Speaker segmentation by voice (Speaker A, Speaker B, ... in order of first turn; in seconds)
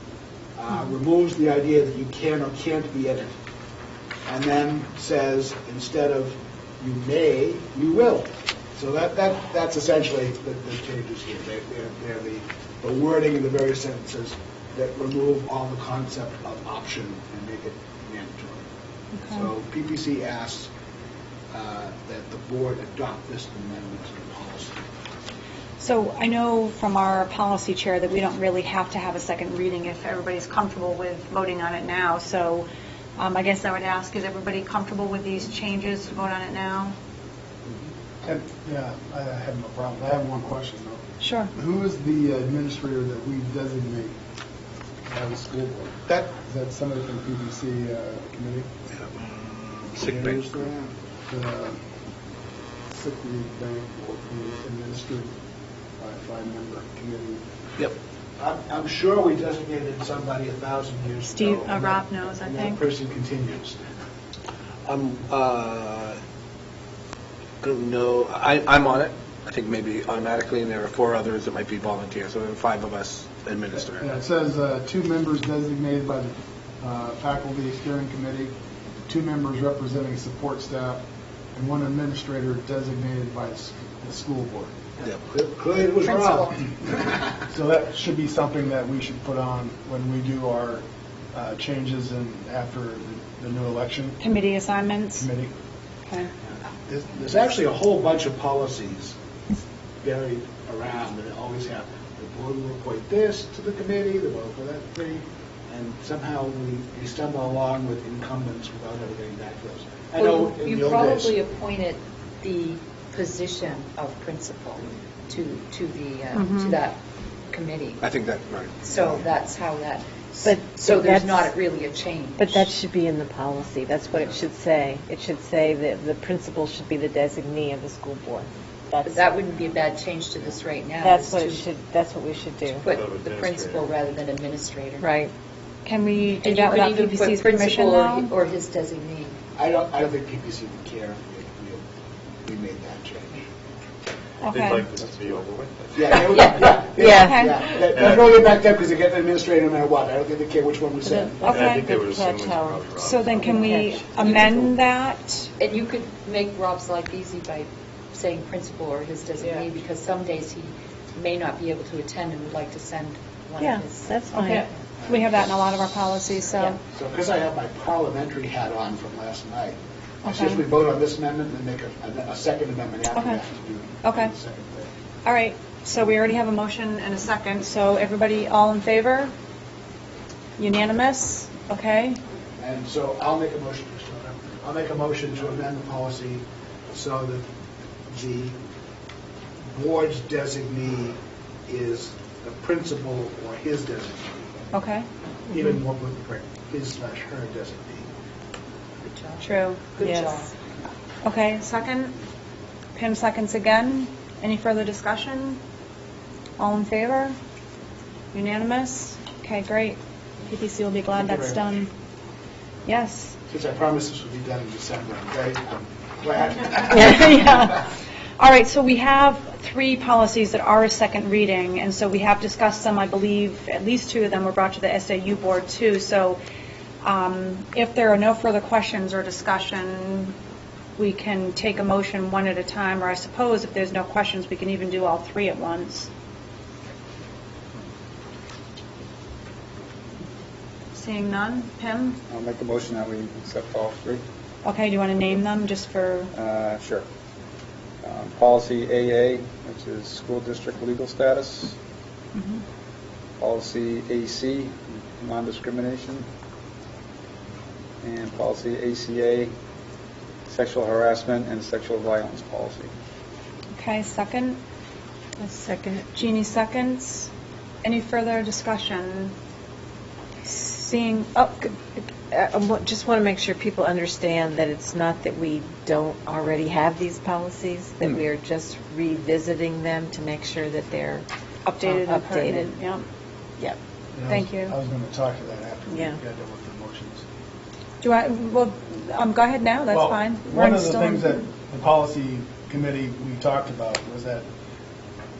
Speaker A: 0.6-3.3, 4.3-18.7, 19.3-20.7, 21.5-24.8, 50.0-50.9, 58.4-63.8, 85.0-86.5, 96.7-99.2, 100.0-111.3, 139.6-141.8, 142.4-143.4, 145.9-151.4, 165.0-166.2, 166.8-174.9, 182.6-187.5, 188.1-188.6, 189.7-194.5, 195.5-198.1, 211.1-211.8, 213.5-217.8
Speaker B: 19.2-19.5, 25.8-37.0, 41.2-41.5, 61.3-62.8, 94.2-95.3, 116.3-116.8, 135.8-138.3, 144.4-144.9, 147.3-147.6, 151.3-151.9, 153.0-155.5, 164.3-166.8, 170.2-170.7, 173.1-173.4, 174.0-174.3, 175.2-179.3, 180.6-182.2, 194.7-195.1, 199.4-199.9, 201.2-202.2, 202.9-205.6, 206.6-207.4, 208.3-211.9, 212.9-213.4, 216.9-226.4, 227.0-230.3, 231.0-236.1, 240.9-242.2, 244.6-246.3, 252.4-252.6, 263.7-264.6, 266.1-267.3, 267.8-269.3, 270.4-271.8, 281.6-283.1, 284.3-284.7, 288.0-291.4
Speaker C: 38.2-44.1, 45.1-48.7, 51.3-51.8, 52.9-55.3, 56.0-57.4, 73.9-78.5, 79.1-81.0, 81.5-84.8, 87.5-94.2, 95.2-95.5, 284.1-287.2, 289.9-294.5
Speaker D: 49.0-50.5, 64.9-66.2, 67.6-74.1, 118.0-118.8
Speaker E: 86.0-86.6, 110.2-118.0, 118.8-122.7, 129.1-131.7, 132.7-135.1, 136.4-139.4, 146.2-146.8, 155.6-164.8, 166.5-166.8, 199.0-200.5
Speaker F: 120.4-121.5, 122.4-129.4, 131.0-132.9, 135.0-135.3, 147.0-147.4, 151.0-154.7, 163.6-164.7, 200.0-200.4, 265.4-266.1, 272.0-281.3, 281.8-282.7, 285.9-286.2
Speaker G: 132.9-134.0, 144.4-146.5, 147.6-148.5, 151.4-153.7
Speaker H: 242.3-244.2, 246.3-247.0, 248.0-251.8, 253.4-256.3, 258.0-259.5, 260.5-262.9